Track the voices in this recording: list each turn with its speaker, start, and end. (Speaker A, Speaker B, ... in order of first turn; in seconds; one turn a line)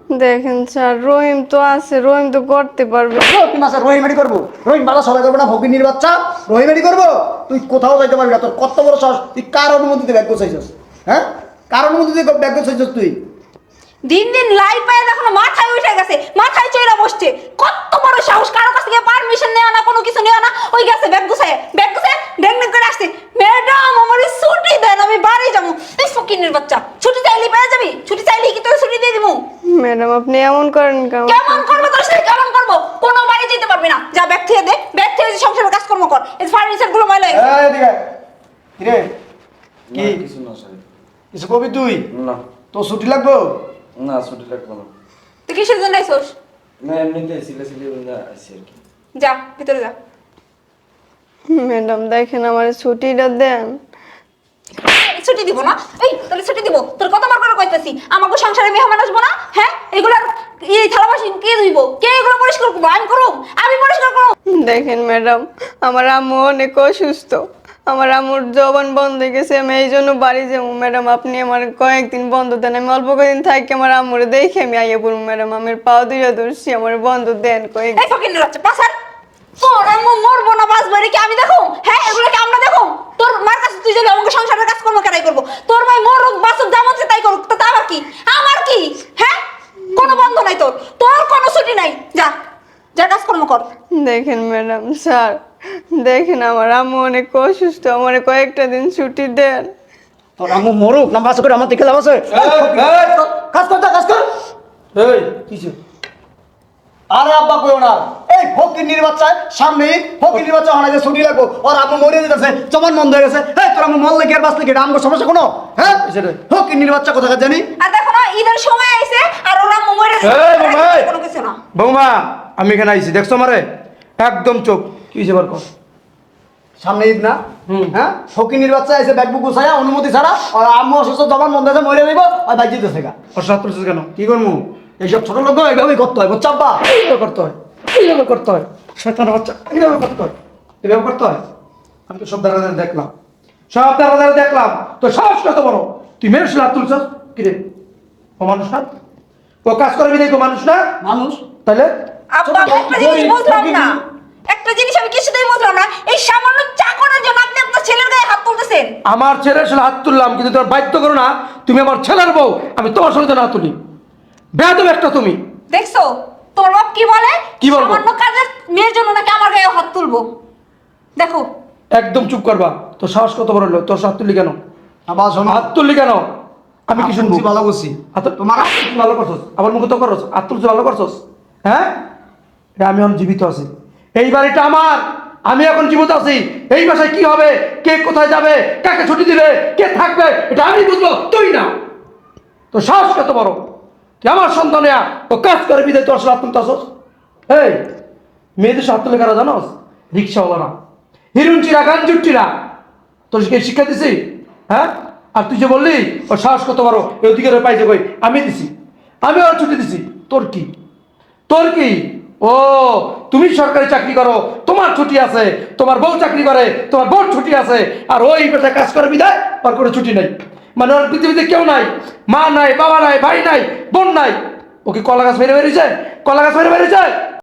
Speaker A: 0.1-3.5
Speaker B: 3.2-13.2
Speaker C: 14.1-29.4
Speaker A: 29.8-31.8
Speaker C: 31.3-37.4
Speaker B: 37.3-38.0
Speaker B: 38.8-39.1
Speaker D: 39.9-40.8
Speaker B: 39.9-40.2
Speaker B: 41.3-42.1
Speaker D: 42.1-42.4
Speaker B: 42.7-43.5
Speaker D: 44.0-44.9
Speaker C: 45.5-46.3
Speaker D: 46.8-48.8
Speaker C: 49.2-50.0
Speaker A: 51.5-53.8
Speaker C: 54.8-64.3
Speaker A: 64.5-78.1
Speaker C: 78.0-78.9
Speaker C: 79.6-89.4
Speaker C: 89.9-92.3
Speaker C: 93.0-93.7
Speaker A: 94.0-95.4
Speaker A: 95.9-99.7
Speaker B: 100.4-104.2
Speaker E: 102.3-103.1
Speaker E: 105.0-105.8
Speaker B: 107.1-117.7
Speaker E: 116.0-116.4
Speaker C: 117.8-121.6
Speaker E: 120.2-121.1
Speaker E: 121.8-123.7
Speaker E: 124.2-125.7
Speaker B: 126.8-127.4
Speaker E: 127.7-127.9
Speaker B: 127.9-133.1
Speaker E: 133.3-134.1
Speaker B: 134.2-136.8
Speaker E: 136.8-141.4
Speaker E: 142.1-143.1
Speaker E: 143.7-147.7
Speaker E: 148.4-148.9
Speaker E: 149.7-150.8
Speaker B: 151.0-151.4
Speaker E: 151.6-151.9
Speaker C: 152.3-158.9
Speaker B: 152.5-154.0
Speaker E: 159.1-163.8
Speaker E: 164.5-165.4
Speaker C: 165.7-170.3
Speaker E: 167.6-168.0
Speaker C: 171.2-171.5
Speaker E: 171.9-174.6
Speaker B: 175.1-175.7
Speaker E: 175.5-176.2
Speaker E: 176.9-177.4
Speaker B: 177.0-178.7
Speaker E: 178.2-181.9
Speaker E: 182.8-191.7
Speaker E: 192.7-193.7
Speaker E: 194.2-196.9
Speaker E: 197.5-197.8
Speaker E: 198.6-200.7
Speaker E: 201.3-202.5
Speaker E: 203.3-208.7
Speaker E: 209.2-210.7
Speaker E: 211.5-227.1